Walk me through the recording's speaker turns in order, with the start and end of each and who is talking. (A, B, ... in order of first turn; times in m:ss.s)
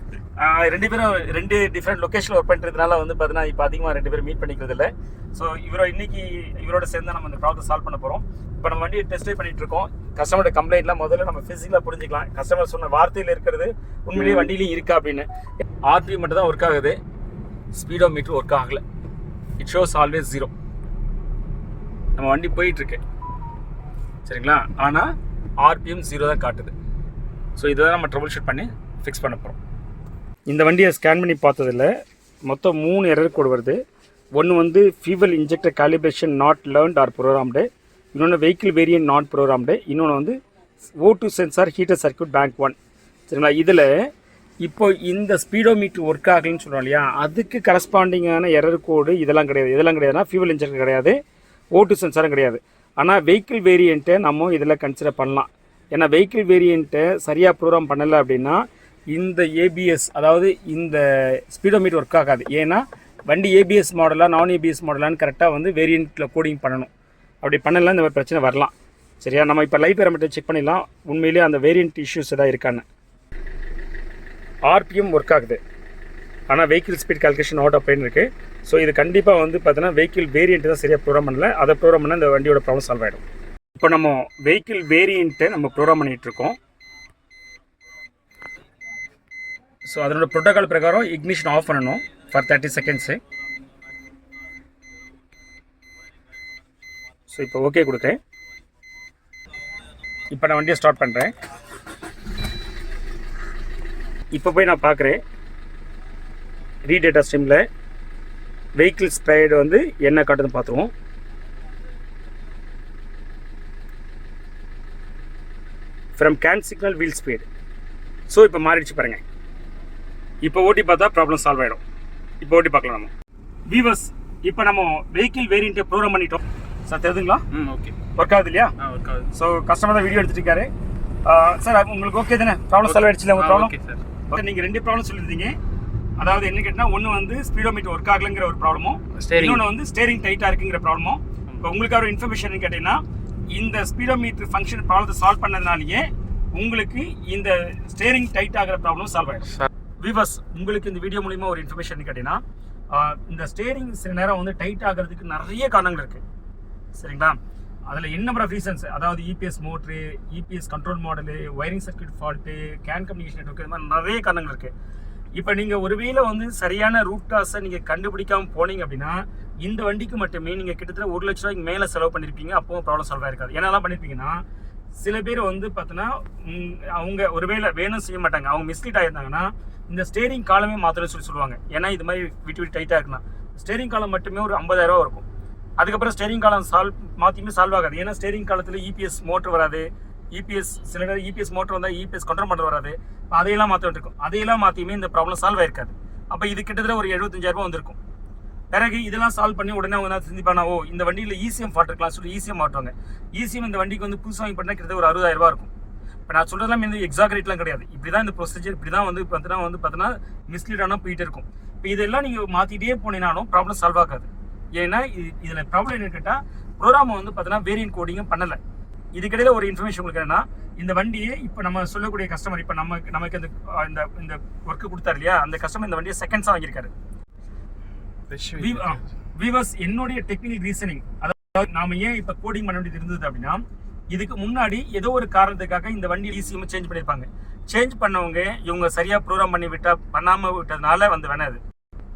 0:00.4-0:15.3 A
0:14.2-0:14.5 B
0:15.8-0:17.0 A
0:17.7-0:18.8 A
0:19.6-0:20.5 A
0:22.2-0:23.0 A
0:24.2-0:25.1 A
0:25.6-0:26.7 A
0:27.6-0:29.6 A
0:30.5-0:31.9 A
0:32.5-0:33.8 A
0:34.4-0:40.4 A
0:41.0-0:42.8 A
0:43.3-0:43.9 A
0:44.6-0:51.2 A
0:51.8-1:06.9 A
1:07.4-1:12.8 A
1:14.7-1:15.6 A
1:16.5-1:23.2 A
1:23.8-1:26.6 A
1:29.9-1:33.2 A
1:37.3-1:38.2 A
1:40.3-1:41.3 A
1:44.3-1:45.2 A
1:46.9-1:47.6 A
1:48.8-1:50.9 A
1:56.2-1:57.4 A
1:58.3-1:59.2 A
2:00.4-2:01.8 A
2:02.4-2:03.1 A
2:03.7-2:07.4 A
2:07.5-2:08.0 B
2:08.2-2:08.7 A
2:08.8-2:09.3 B
2:09.3-2:10.7 A
2:11.2-2:13.7 A
2:12.8-2:14.0 B
2:14.3-2:15.6 A
2:16.2-2:32.4 A
2:19.1-2:19.6 B
2:32.9-2:36.2 A
2:37.0-2:44.7 A
2:45.4-2:54.4 A
2:55.0-3:05.2 A
3:05.8-3:18.0 A
3:18.7-3:25.7 A
3:26.3-3:38.6 A
3:39.1-3:46.9 A
3:48.3-3:49.0 B
3:48.6-4:01.6 A